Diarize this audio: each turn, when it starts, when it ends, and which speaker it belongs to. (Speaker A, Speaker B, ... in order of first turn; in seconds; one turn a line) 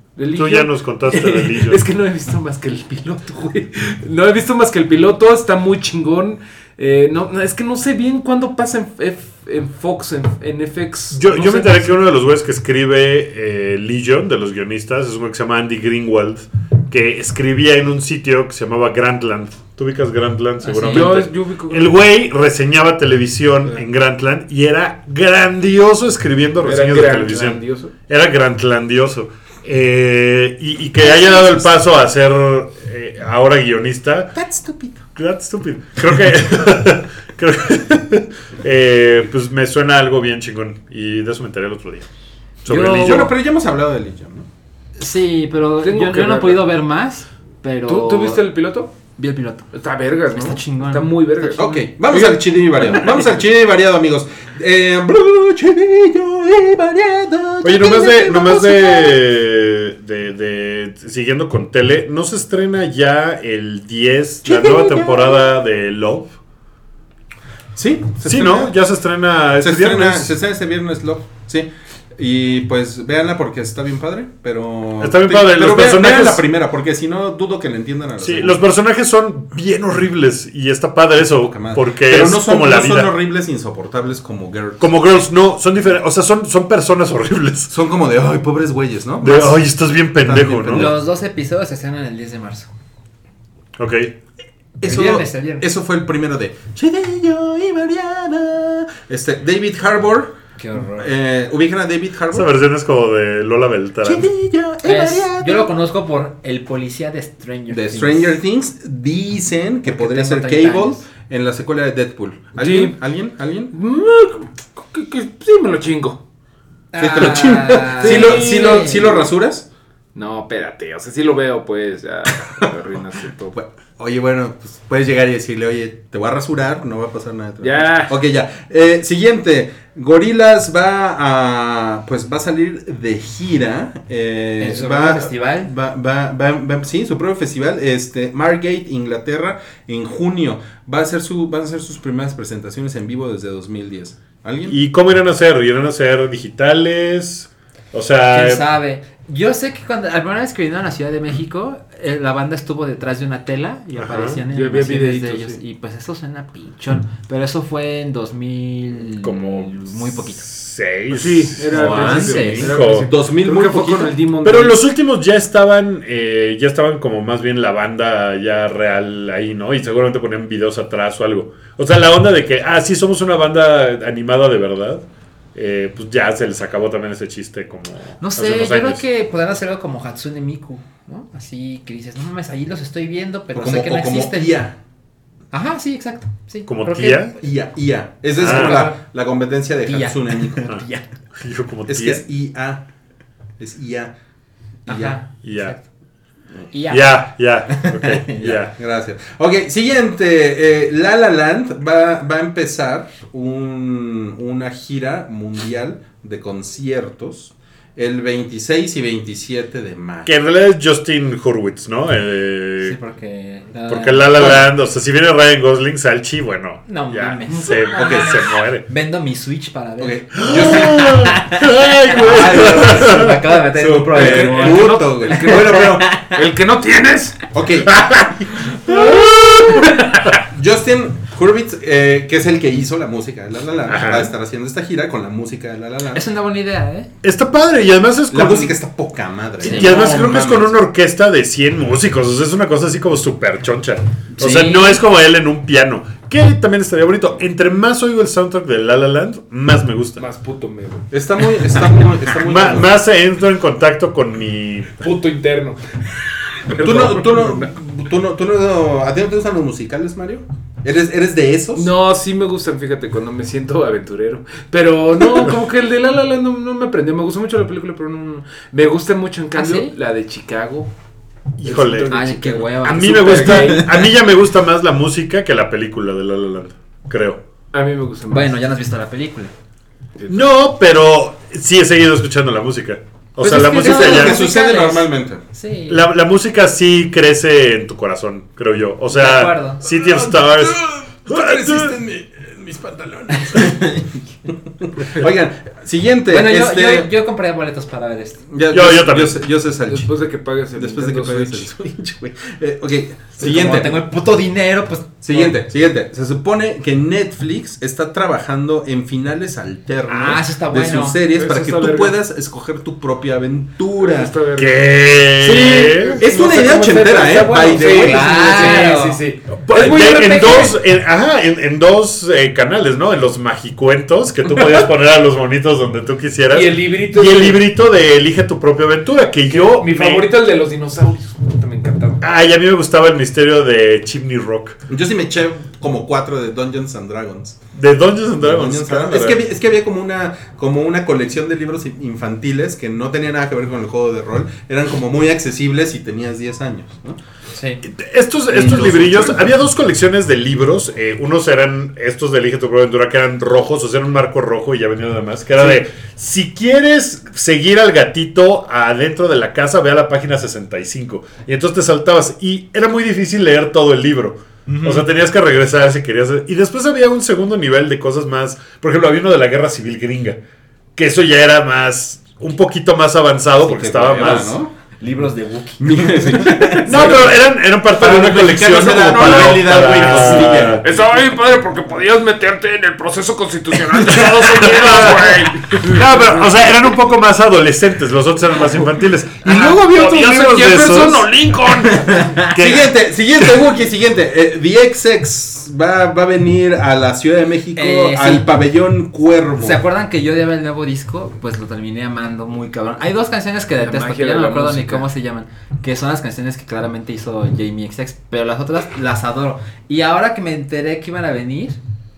Speaker A: 0.2-12.0
Speaker B: 0.3-1.8
Speaker B: 11.1-34.3
Speaker C: 20.6-21.1
Speaker A: 20.9-22.0
Speaker A: 26.6-27.9
Speaker D: 31.0-31.7
Speaker D: 34.4-35.0
Speaker B: 35.2-42.1
Speaker B: 42.6-43.3
Speaker C: 42.7-43.3
Speaker D: 43.0-44.5
Speaker C: 45.0-48.4
Speaker A: 45.8-46.7
Speaker A: 47.9-48.9
Speaker C: 49.2-49.7
Speaker A: 49.7-53.1
Speaker C: 50.3-51.1
Speaker D: 51.4-59.2
Speaker B: 57.6-66.3
Speaker D: 64.5-65.5
Speaker D: 67.8-68.7
Speaker B: 68.2-70.3
Speaker D: 69.6-78.6
Speaker B: 75.0-76.4
Speaker B: 78.2-83.1
Speaker D: 81.4-84.9
Speaker B: 84.8-87.7
Speaker D: 87.7-89.7
Speaker B: 89.2-91.0
Speaker D: 90.2-91.0
Speaker C: 90.7-92.7
Speaker B: 93.8-94.2
Speaker D: 94.8-102.5
Speaker C: 94.8-95.7
Speaker C: 100.6-101.1
Speaker B: 102.3-104.3
Speaker D: 104.0-105.7
Speaker C: 104.8-108.4
Speaker D: 107.7-113.7
Speaker C: 109.9-111.0
Speaker A: 112.6-113.0
Speaker A: 113.7-116.2
Speaker C: 116.9-119.2
Speaker D: 117.0-119.7
Speaker A: 117.2-119.2
Speaker A: 120.2-123.6
Speaker D: 123.6-144.8
Speaker A: 127.6-128.2
Speaker C: 134.6-135.7
Speaker B: 144.7-148.6
Speaker C: 148.3-160.5
Speaker B: 154.0-154.4
Speaker A: 154.5-155.6
Speaker B: 159.2-163.1
Speaker A: 161.1-164.8
Speaker C: 161.7-162.8
Speaker D: 162.9-164.2
Speaker B: 164.4-179.0
Speaker C: 178.2-184.6
Speaker D: 183.5-184.8
Speaker C: 185.5-187.3
Speaker B: 186.7-187.4
Speaker D: 187.4-190.7
Speaker C: 188.4-189.0
Speaker B: 188.4-188.9
Speaker C: 189.8-191.1
Speaker B: 191.3-192.2
Speaker D: 191.9-192.8
Speaker D: 193.6-194.2
Speaker D: 194.9-195.2
Speaker C: 194.9-195.8
Speaker B: 195.3-195.8
Speaker C: 196.7-198.6
Speaker B: 196.9-198.8
Speaker D: 198.5-210.3
Speaker B: 210.2-213.0
Speaker C: 212.8-214.7
Speaker B: 213.9-218.9
Speaker C: 216.9-226.4
Speaker D: 217.9-218.4
Speaker D: 220.0-221.2
Speaker B: 220.4-223.4
Speaker D: 222.2-226.1
Speaker A: 224.1-227.4
Speaker D: 227.5-228.6
Speaker C: 228.9-229.3
Speaker B: 228.9-229.9
Speaker A: 229.7-230.3
Speaker D: 230.5-236.2
Speaker B: 233.9-234.3
Speaker C: 236.1-237.1
Speaker B: 237.2-238.8
Speaker D: 238.3-240.8
Speaker C: 239.6-240.3
Speaker B: 239.6-250.2
Speaker C: 244.4-245.0
Speaker A: 250.2-251.1
Speaker D: 251.1-253.0
Speaker B: 252.4-255.0
Speaker A: 255.0-255.8
Speaker A: 256.6-257.7
Speaker D: 256.8-261.9
Speaker A: 261.8-270.9
Speaker C: 269.6-269.9
Speaker B: 271.6-272.2
Speaker A: 271.6-274.0
Speaker C: 272.1-273.9
Speaker B: 272.8-277.4
Speaker A: 277.7-278.6
Speaker C: 278.3-279.5
Speaker B: 280.3-284.4
Speaker C: 283.4-286.1
Speaker D: 283.8-285.4
Speaker B: 285.9-292.0
Speaker C: 289.1-289.8
Speaker D: 289.8-294.0
Speaker D: 294.8-297.1
Speaker C: 296.3-298.4
Speaker D: 298.5-300.1
Speaker B: 298.7-299.4
Speaker A: 299.9-301.7
Speaker D: 300.8-304.1
Speaker C: 303.4-305.5
Speaker D: 305.2-314.4
Speaker C: 310.1-311.2
Speaker A: 311.3-312.2
Speaker A: 314.0-320.8
Speaker B: 314.6-316.3
Speaker D: 315.7-318.4
Speaker C: 317.9-319.2
Speaker B: 319.5-330.3
Speaker C: 320.4-320.7
Speaker A: 326.5-327.6
Speaker A: 329.5-332.2
Speaker B: 332.2-334.8
Speaker D: 334.9-337.6
Speaker B: 337.7-339.4
Speaker D: 338.4-347.2
Speaker C: 347.6-347.8
Speaker B: 347.8-370.4
Speaker D: 348.5-349.4
Speaker B: 371.0-374.6
Speaker D: 373.6-374.7
Speaker C: 375.0-376.8
Speaker D: 375.8-380.8
Speaker B: 376.8-380.9
Speaker A: 379.1-386.5
Speaker B: 384.2-391.3
Speaker A: 389.5-392.4
Speaker C: 392.1-392.5
Speaker B: 392.5-392.9
Speaker D: 392.6-399.8
Speaker C: 397.8-398.5
Speaker C: 399.6-411.8
Speaker A: 403.8-405.1